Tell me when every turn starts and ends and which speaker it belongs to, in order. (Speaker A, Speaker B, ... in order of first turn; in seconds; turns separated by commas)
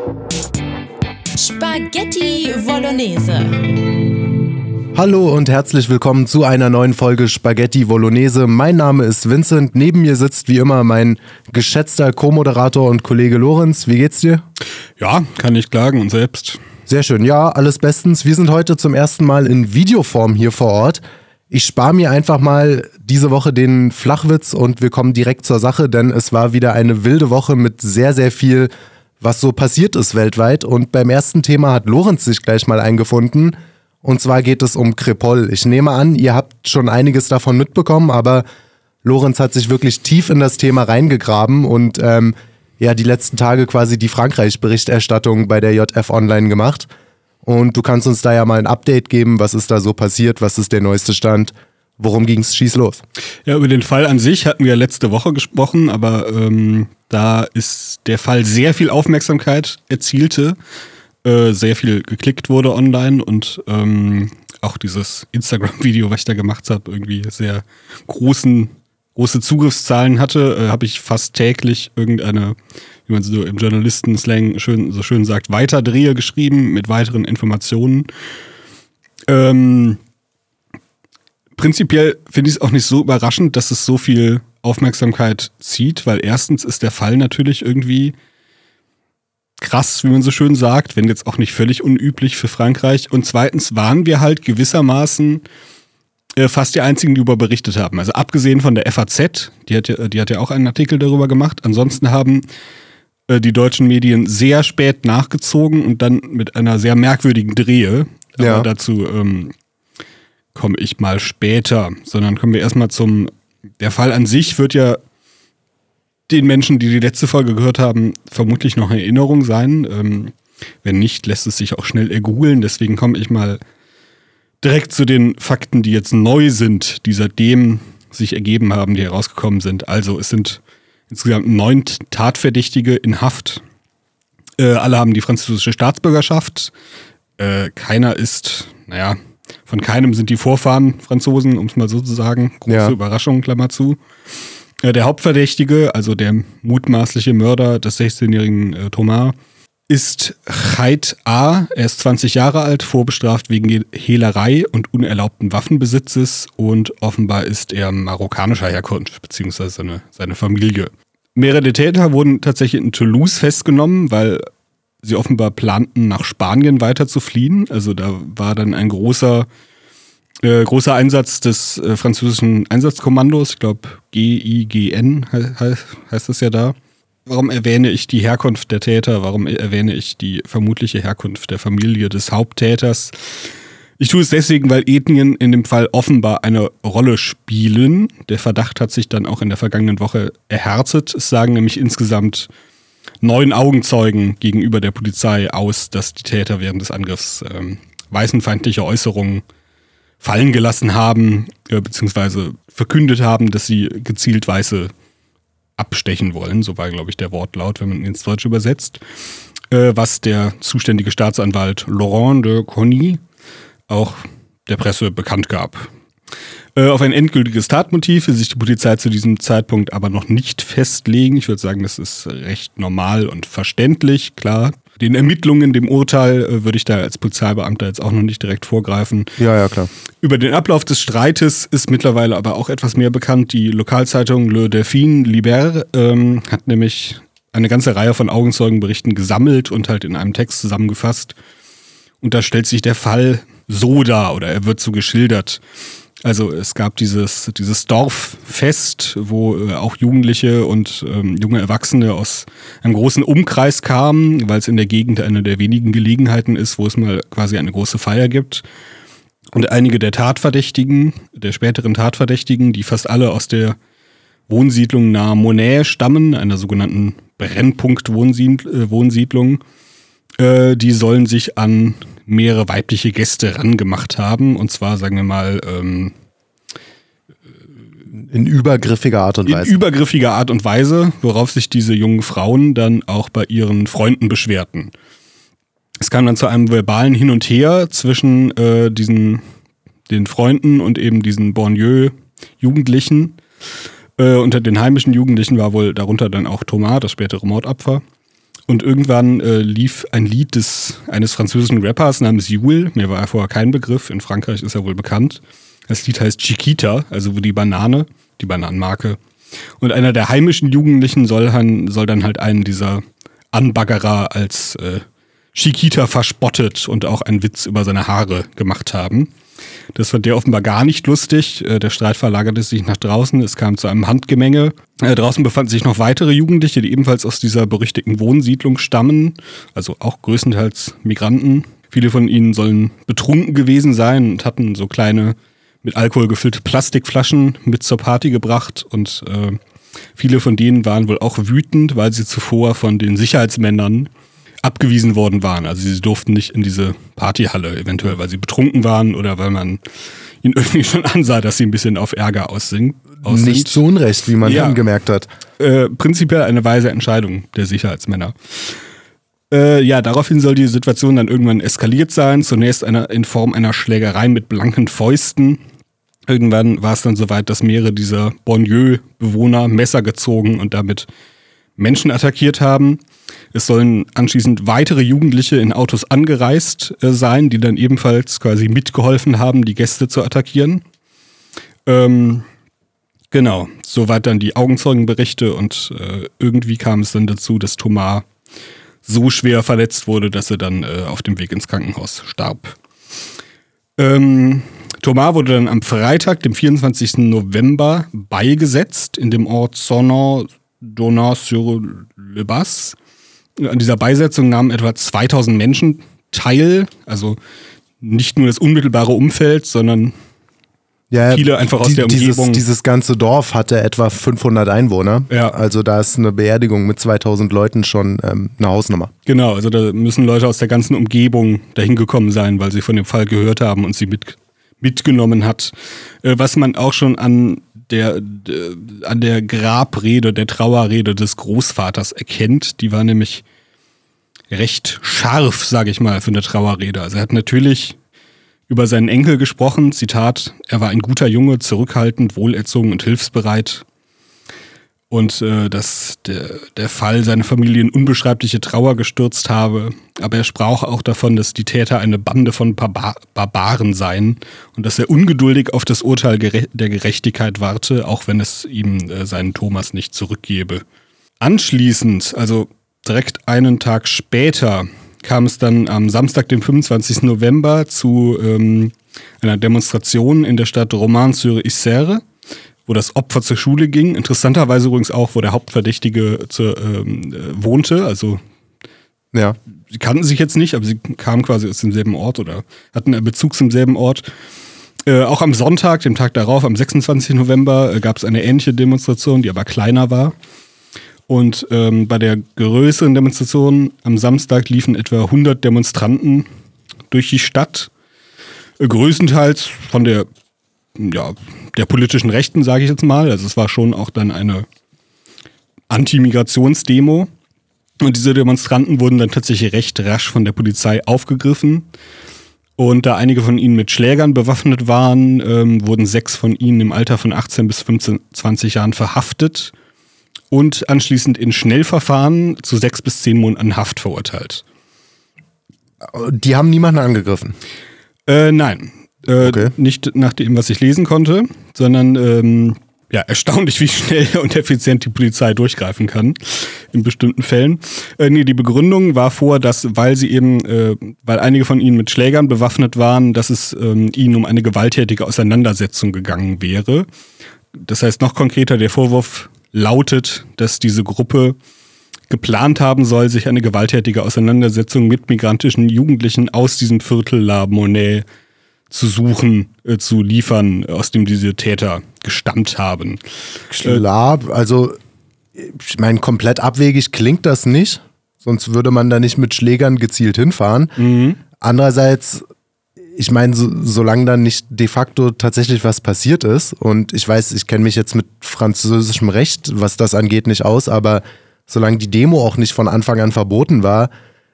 Speaker A: 1.4-3.8, Speaker B: 5.0-14.4, Speaker C: 15.0-16.6, Speaker B: 16.9-38.5, Speaker B: 39.0-46.9, Speaker B: 47.5-53.0, Speaker C: 53.5-60.6, Speaker C: 61.2-72.6, Speaker C: 73.1-78.1, Speaker C: 79.3-80.0, Speaker C: 81.6-88.2, Speaker C: 89.6-95.4, Speaker C: 96.4-102.5, Speaker C: 103.3-109.5, Speaker B: 108.4-108.7, Speaker C: 110.5-115.0, Speaker C: 116.3-123.6, Speaker C: 124.6-133.6, Speaker C: 134.6-136.7, Speaker C: 137.4-144.0, Speaker B: 142.7-142.9, Speaker C: 144.8-149.4, Speaker C: 149.9-164.5, Speaker C: 165.0-169.5, Speaker C: 170.4-183.5, Speaker C: 184.0-192.5, Speaker C: 193.2-199.4, Speaker C: 200.2-204.9, Speaker C: 205.8-209.0, Speaker C: 209.7-213.2, Speaker C: 213.9-215.9, Speaker C: 216.8-229.4, Speaker B: 229.4-229.9, Speaker C: 230.2-241.4, Speaker C: 242.2-245.6, Speaker C: 246.2-258.6, Speaker C: 259.5-263.8, Speaker C: 264.5-269.6, Speaker C: 270.4-276.1, Speaker B: 278.2-279.8, Speaker C: 279.5-284.9, Speaker C: 286.0-289.4, Speaker C: 290.1-293.4, Speaker C: 294.2-298.0, Speaker C: 298.7-309.2, Speaker C: 309.8-319.3, Speaker C: 319.9-339.6, Speaker C: 340.2-344.1, Speaker C: 344.6-349.8, Speaker C: 350.4-353.8, Speaker B: 353.2-355.3, Speaker C: 354.4-354.8, Speaker C: 355.6-358.8, Speaker C: 359.5-365.6, Speaker C: 366.3-371.1, Speaker C: 371.8-373.0, Speaker C: 373.5-380.8, Speaker C: 381.9-382.5, Speaker C: 383.3-388.3, Speaker C: 389.0-392.8, Speaker C: 394.0-403.0, Speaker C: 403.6-407.4, Speaker C: 408.0-410.1, Speaker B: 411.1-419.1, Speaker C: 411.3-412.6, Speaker C: 419.3-433.4, Speaker C: 434.5-438.0, Speaker C: 438.7-443.9, Speaker C: 445.1-460.9, Speaker C: 461.4-472.2, Speaker C: 472.9-478.4, Speaker C: 479.9-484.2, Speaker C: 485.1-490.4, Speaker C: 491.3-496.5, Speaker C: 497.1-497.9, Speaker C: 498.8-500.3, Speaker C: 501.0-504.7, Speaker C: 505.9-507.3, Speaker C: 508.0-511.9, Speaker C: 512.8-519.7, Speaker C: 520.5-524.6, Speaker B: 526.1-527.6, Speaker C: 528.3-547.1, Speaker B: 529.4-529.7, Speaker C: 547.7-551.6, Speaker C: 552.3-558.3, Speaker C: 558.9-563.2, Speaker B: 563.7-565.0, Speaker B: 565.6-571.0, Speaker C: 571.0-571.4, Speaker B: 571.6-572.4, Speaker B: 573.2-584.1